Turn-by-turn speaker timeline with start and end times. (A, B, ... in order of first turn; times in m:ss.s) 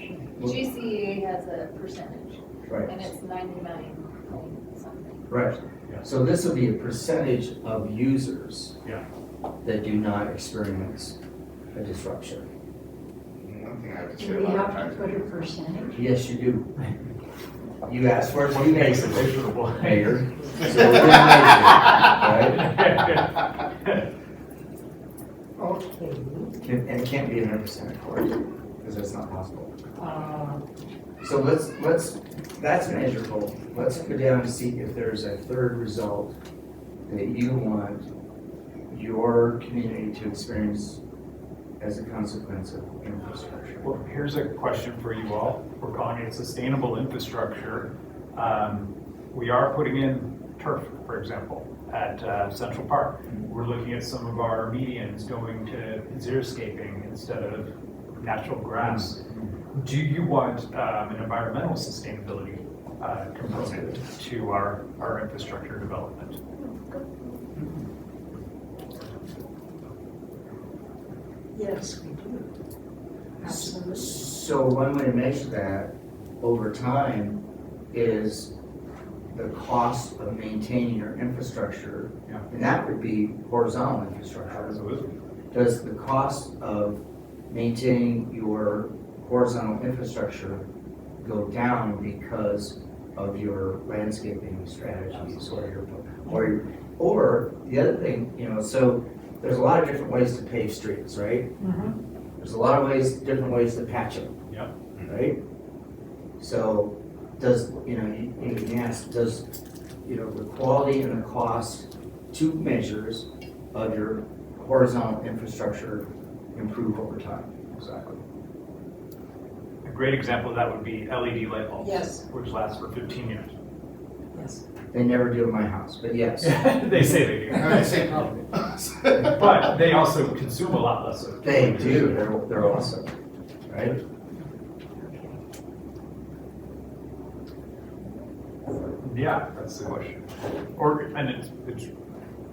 0:00.4-0:05.3 A
0:02.6-0:02.9 B
0:05.3-0:08.8 B
0:09.6-0:11.2 B
0:11.7-0:12.4 B
0:13.4-0:15.3 C
0:14.2-0:16.0 D
0:15.9-0:16.7 B
0:17.8-0:22.8 B
0:18.5-0:20.0 E
0:21.4-0:24.0 E
0:25.6-0:26.6 D
0:26.6-0:29.7 B
0:30.0-0:30.6 D
0:31.2-0:36.4 B
0:37.1-0:38.1 B
0:38.9-0:41.0 B
0:41.8-0:44.0 B
0:43.8-1:06.4 E
0:58.8-0:59.4 B
1:03.4-1:04.0 B
1:11.5-1:12.5 D
1:13.4-1:14.2 D
1:13.4-1:18.5 B
1:19.3-1:24.8 B
1:24.6-1:25.1 E
1:25.5-1:30.6 B
1:31.2-1:41.6 B
1:41.6-1:41.9 D
1:42.4-1:44.3 B
1:45.1-1:45.4 B
1:46.4-1:49.5 B
1:50.0-1:58.2 B
1:59.8-2:03.5 E
2:01.8-2:02.2 D
2:04.3-2:04.6 D
2:04.9-2:06.7 B
2:06.4-2:08.1 E
2:07.6-2:09.6 C
2:09.1-2:12.3 E
2:11.4-2:13.1 B
2:12.6-2:12.8 D
2:13.7-2:14.0 B
2:15.0-2:15.4 D
2:19.0-2:21.9 E